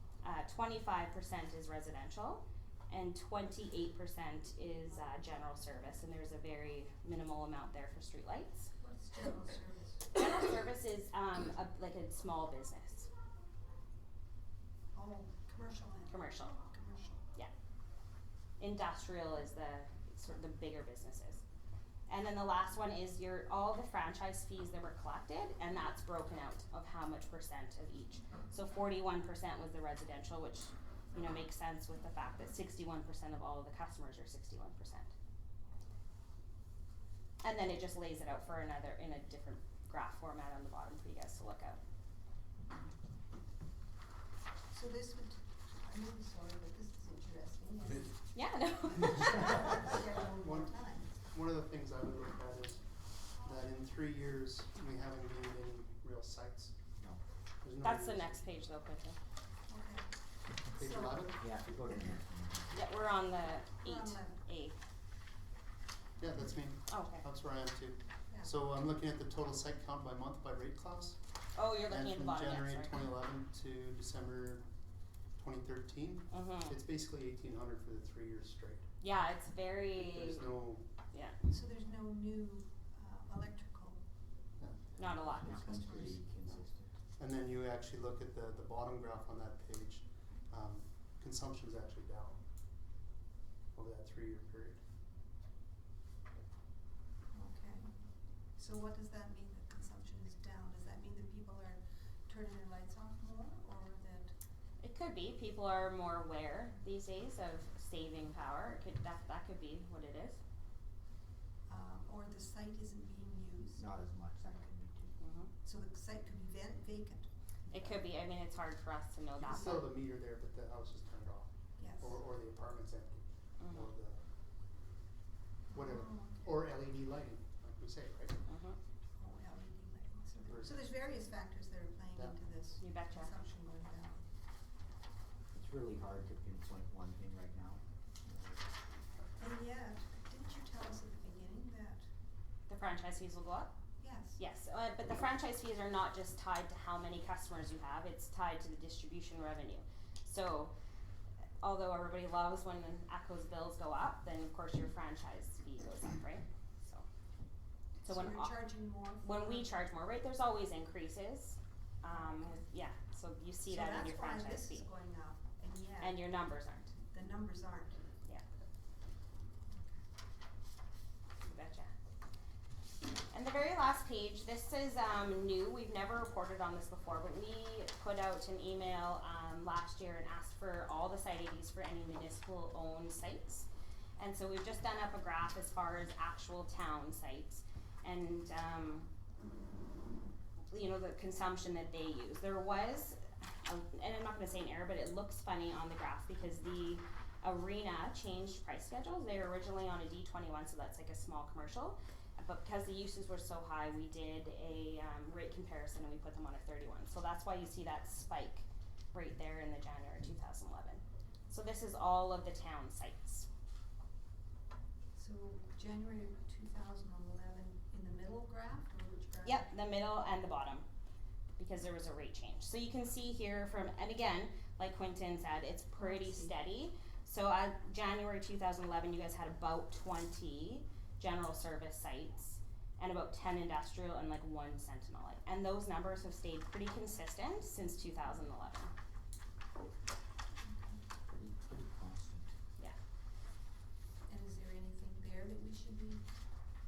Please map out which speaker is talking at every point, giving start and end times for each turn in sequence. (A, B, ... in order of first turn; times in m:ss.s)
0:00.2-0:08.7 A
0:08.8-0:10.1 B
0:10.1-0:13.1 A
0:14.9-0:17.3 B
0:16.1-0:16.6 A
0:18.6-0:21.4 A
0:22.1-0:35.1 A
0:37.4-0:41.8 A
0:44.7-0:48.2 B
0:48.3-0:49.7 A
0:49.3-0:51.3 B
0:50.3-0:50.8 C
0:51.3-0:56.8 C
0:57.6-0:58.4 C
0:57.8-0:59.2 A
0:59.7-1:00.1 B
1:00.8-1:01.4 C
1:00.8-1:01.3 B
1:01.4-1:02.8 D
1:02.7-1:04.8 A
1:03.8-1:04.4 B
1:06.2-1:11.2 C
1:06.9-1:07.2 A
1:11.6-1:13.0 A
1:11.9-1:14.6 C
1:15.4-1:18.9 C
1:16.3-1:16.8 A
1:19.0-1:20.5 A
1:20.0-1:20.8 C
1:21.1-1:21.4 A
1:21.5-1:24.0 B
1:24.6-1:25.0 C
1:25.0-1:25.7 A
1:25.0-1:27.0 D
1:25.2-1:26.4 B
1:27.2-1:32.4 C
1:33.7-1:34.8 C
1:37.3-1:38.0 B
1:38.6-1:44.4 B
1:44.8-1:50.4 A
1:51.7-1:53.8 B
1:53.8-1:55.2 D
1:55.2-1:55.5 A
1:55.6-1:57.3 B
1:57.7-1:59.8 A
1:59.4-2:04.2 C
2:01.8-2:02.1 B
2:03.6-2:03.9 A
2:05.7-2:06.4 B
2:05.7-2:08.4 C
2:08.5-2:08.8 A
2:09.2-2:14.2 B
2:10.4-2:10.9 C
2:12.8-2:13.3 A
2:15.5-2:18.7 D
2:19.4-2:22.1 B
2:22.7-2:23.7 A
2:24.0-2:24.4 B
2:24.4-2:30.7 A
2:31.6-2:37.1 A
2:38.0-2:39.8 B
2:38.0-2:38.6 A
2:39.2-2:44.9 A
2:42.1-2:42.5 B
2:43.7-2:46.2 B
2:46.0-2:46.9 A
2:47.1-2:48.0 B
2:51.4-2:51.9 A
2:53.3-3:09.1 A
3:10.7-3:33.5 A
3:35.2-3:39.7 B
3:39.4-3:40.8 A
3:41.6-3:58.9 A
3:46.0-3:46.5 B
4:00.6-4:01.0 B
4:01.3-4:02.5 D
4:04.3-4:06.2 B